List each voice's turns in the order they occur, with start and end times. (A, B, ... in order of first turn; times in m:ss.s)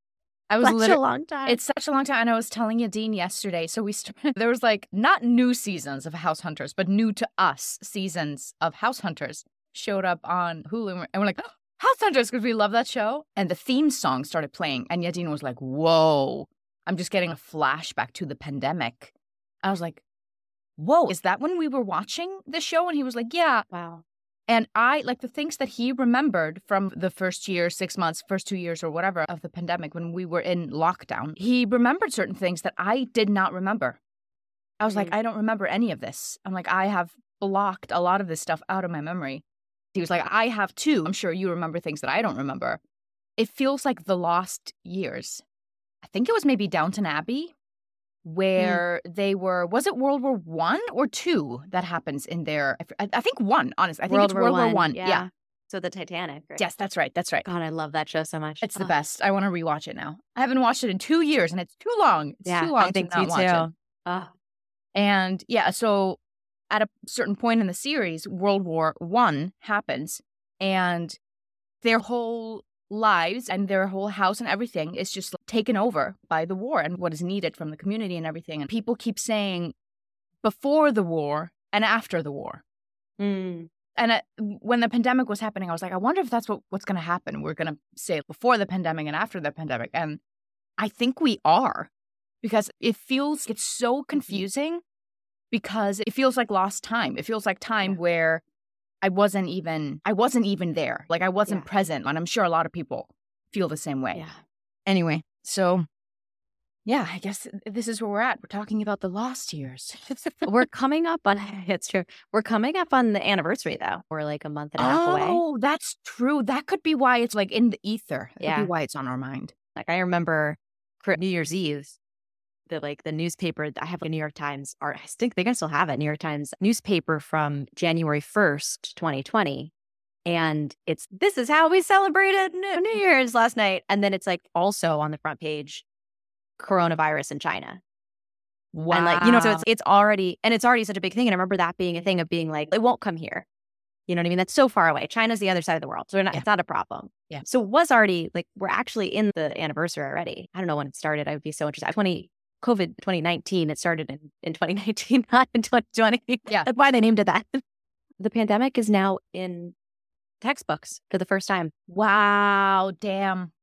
0:00.5-0:19.1 A
0:00.6-0:01.6 B
0:19.6-0:20.0 A
0:20.8-0:23.7 A
0:23.7-0:24.0 B
0:24.5-0:34.0 A
0:34.8-0:39.4 A
0:34.9-0:35.2 B
0:39.9-0:42.8 A
0:43.4-0:45.4 A
0:46.0-0:47.5 A
0:48.2-0:55.3 A
0:48.6-0:48.8 B
0:54.1-0:56.6 B
0:56.6-0:57.4 A
0:57.4-0:58.9 B
0:58.6-1:03.7 A
1:02.4-1:04.3 B
1:04.9-1:06.2 A
1:06.7-1:11.2 A
1:11.8-1:19.7 A
1:20.4-1:22.6 A
1:23.2-1:23.7 B
1:24.0-1:30.2 A
1:30.8-1:31.9 A
1:32.4-1:34.8 A
1:34.2-1:34.4 B
1:35.5-1:38.4 A
1:39.0-1:44.2 A
1:44.1-1:44.4 B
1:44.9-1:45.8 A
1:46.9-1:50.5 A
1:50.5-1:55.4 B
1:54.8-1:59.5 A
1:58.4-1:58.7 B
1:59.8-2:02.0 B
2:02.7-2:09.7 B
2:10.3-2:15.8 B
2:16.6-2:17.8 B
2:18.7-2:19.6 A
2:18.9-2:23.5 B
2:24.1-2:37.6 B
2:38.2-2:39.8 B
2:40.4-2:41.7 B
2:41.9-2:43.5 A